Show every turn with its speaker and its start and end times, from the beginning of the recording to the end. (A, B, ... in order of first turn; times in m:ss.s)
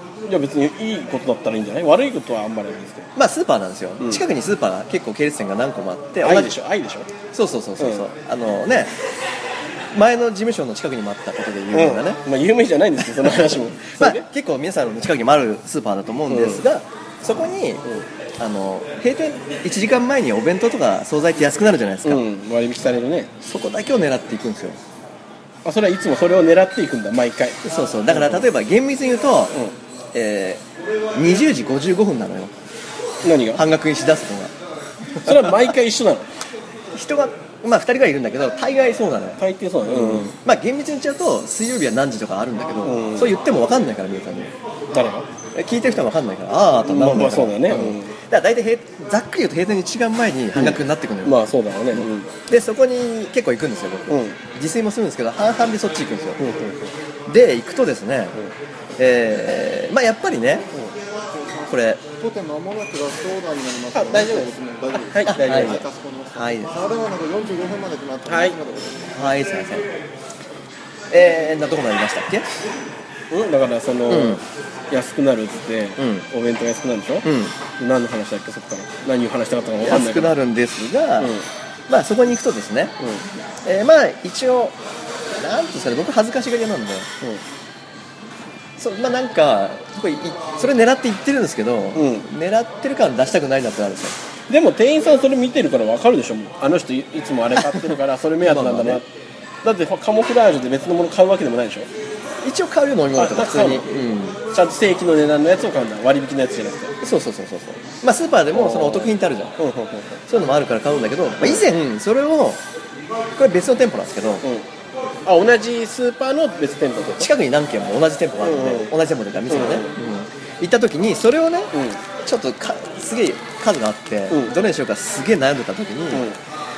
0:00.3-0:03.1 A
0:03.2-0:06.5 B
0:06.2-0:07.1 A
0:07.3-0:08.9 B
0:07.8-0:08.0 A
0:09.9-0:12.2 B
0:11.7-0:14.2 A
0:14.0-0:17.8 B
0:16.3-0:16.6 A
0:18.4-0:22.2 B
0:22.0-0:23.3 A
0:23.4-0:24.8 B
0:25.6-0:28.4 A
0:27.6-0:29.6 B
0:30.1-0:30.6 B
0:31.1-0:32.5 B
0:33.2-0:33.6 A
0:33.5-0:34.5 B
0:35.2-0:35.7 B
0:35.2-0:36.3 A
0:36.9-0:44.5 B
0:39.4-0:40.3 A
0:42.8-0:43.3 A
0:44.9-0:45.3 A
0:45.5-0:51.4 B
0:46.8-0:48.1 A
0:50.5-0:52.3 A
0:51.9-0:56.4 B
0:54.1-0:54.4 A
0:56.4-0:56.9 A
0:57.3-0:58.4 B
0:59.0-1:00.7 B
1:01.3-1:09.2 C
1:01.7-1:02.0 B
1:03.9-1:05.8 A
1:05.2-1:05.8 B
1:06.3-1:06.7 B
1:08.3-1:08.6 A
1:09.1-1:09.9 B
1:11.1-1:12.5 B
1:13.3-1:20.3 A
1:14.1-1:14.4 B
1:16.0-1:16.2 B
1:17.2-1:17.6 B
1:19.8-1:21.3 B
1:21.2-1:21.4 A
1:21.9-1:22.9 B
1:23.0-1:23.2 A
1:23.6-1:24.8 B
1:25.4-1:27.1 B
1:28.8-1:34.2 B
1:31.9-1:32.3 A
1:34.5-1:39.1 A
1:37.5-1:39.0 B
1:39.6-1:41.9 A
1:42.4-1:44.4 B
1:43.1-1:43.9 A
1:44.5-1:46.9 A
1:47.0-1:49.6 B
1:48.5-1:50.2 A
1:50.3-1:52.6 B
1:51.4-1:51.7 A
1:53.3-1:54.4 B
1:55.2-1:57.3 A
1:57.2-2:01.7 B
1:58.4-1:58.9 A
1:59.5-2:00.0 A
2:01.7-2:02.0 A
2:02.2-2:06.3 B
2:04.3-2:04.6 A
2:06.1-2:06.4 A